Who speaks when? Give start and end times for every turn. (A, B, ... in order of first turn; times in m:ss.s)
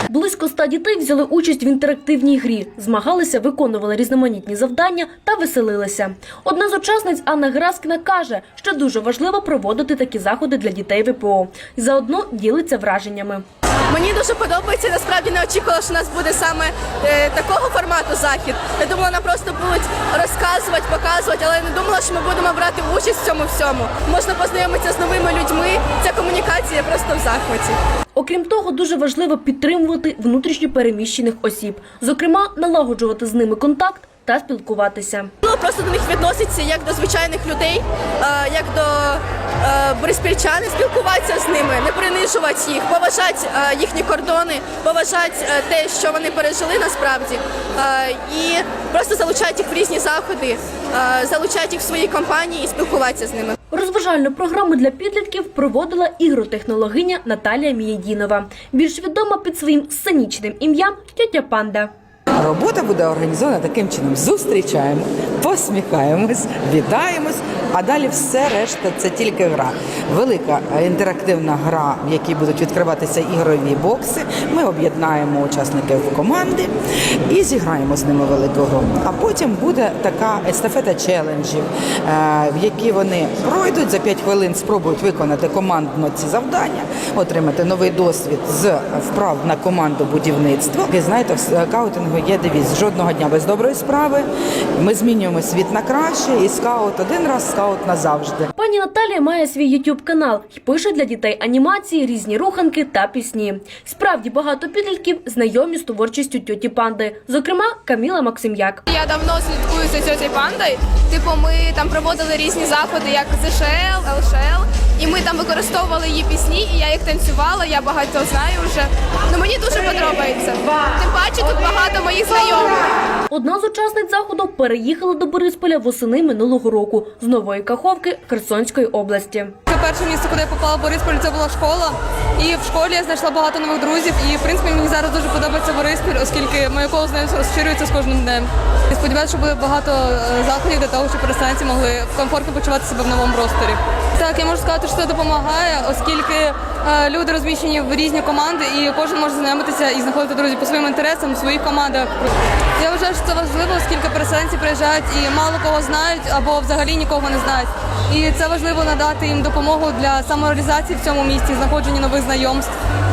0:00.1-0:13.4 A
0:13.9-0:27.8 B
0:28.2-0:35.3 A
0:35.4-0:53.6 B
0:53.7-1:01.9 A
1:02.4-1:16.7 C
1:17.3-1:34.3 C
1:34.8-1:38.5 C
1:38.6-1:48.8 A
1:48.9-2:02.9 D
2:03.3-2:09.6 A
2:09.7-2:42.8 E